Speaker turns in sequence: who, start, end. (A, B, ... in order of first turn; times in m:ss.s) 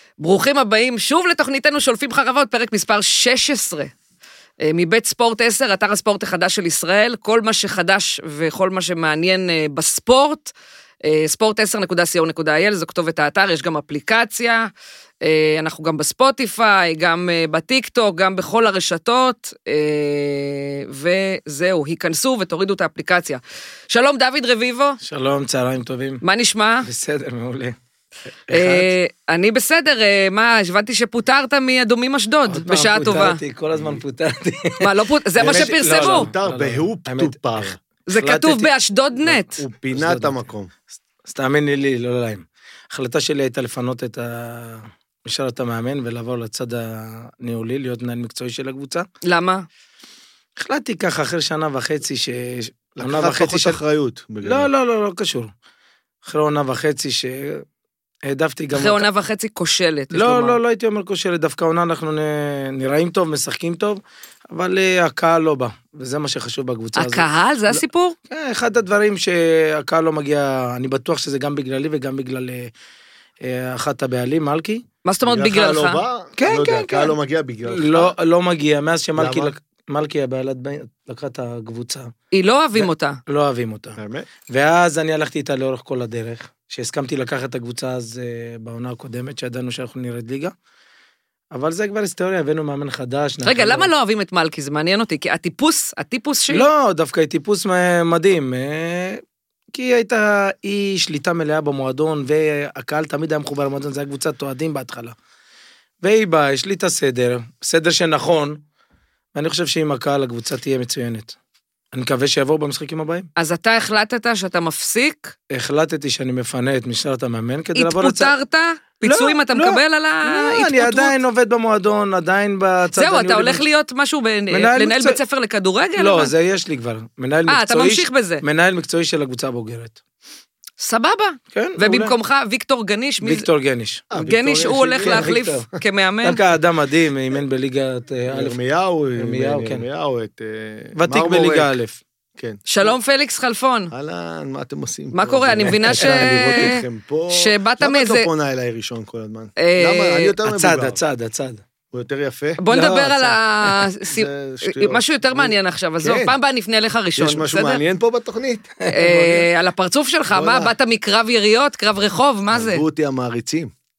0:00.2-0:03.9 A
0:04.6-0:10.5 A
0:11.0-0:14.7 A
0:15.2-0:25.0 A
0:25.0-0:26.2 B
0:26.2-0:26.9 A
0:26.8-0:27.8 B
0:28.5-0:33.4 A
0:28.5-0:28.9 B
0:32.5-0:38.7 B
0:33.7-0:34.0 C
0:34.8-0:36.3 A
0:35.4-0:37.8 C
0:38.1-0:39.6 A
0:39.5-0:40.7 C
0:39.9-0:40.4 B
0:41.2-0:49.1 B
0:49.2-0:49.6 A
0:50.6-0:53.8 B
0:53.0-0:54.7 C
0:54.4-0:55.5 B
0:56.2-0:57.6 B
0:58.2-0:59.0 B
0:58.7-1:00.6 A
1:00.1-1:12.7 B
1:07.0-1:08.1 A
1:13.4-1:14.8 B
1:15.0-1:16.0 A
1:15.2-1:18.1 C
1:16.4-1:17.1 B
1:17.7-1:22.1 B
1:19.2-1:19.5 C
1:22.3-1:23.2 A
1:22.8-1:30.5 B
1:24.0-1:24.3 C
1:31.5-1:33.9 B
1:33.4-1:36.7 A
1:36.5-1:39.2 B
1:39.7-1:45.1 B
1:46.0-1:48.6 B
1:49.3-1:51.3 B
1:51.9-1:53.3 B
1:53.4-1:55.3 A
1:55.5-1:58.3 B
1:57.7-2:01.2 A
1:59.0-2:03.6 B
2:02.9-2:06.3 A
2:04.5-2:05.2 B
2:06.0-2:10.0 B
2:07.5-2:08.4 A
2:10.8-2:13.4 A
2:11.5-2:12.1 B
2:13.2-2:14.1 B
2:14.1-2:15.4 C
2:14.1-2:16.4 A
2:15.0-2:15.6 B
2:16.2-2:18.6 B
2:18.3-2:21.7 C
2:19.2-2:19.8 B
2:21.0-2:22.0 B
2:22.4-2:22.9 C
2:22.7-2:23.9 A
2:23.9-2:31.0 C
2:25.1-2:28.3 A
2:25.9-2:26.4 B
2:29.6-2:30.3 A
2:30.4-2:31.6 B
2:31.9-2:32.6 C
2:32.6-2:37.8 A
2:32.7-2:33.9 B
2:34.1-2:36.3 C
2:37.2-2:38.7 C
2:38.8-2:39.5 B
2:38.9-2:42.8 A
2:40.3-2:40.7 C
2:42.5-2:43.7 C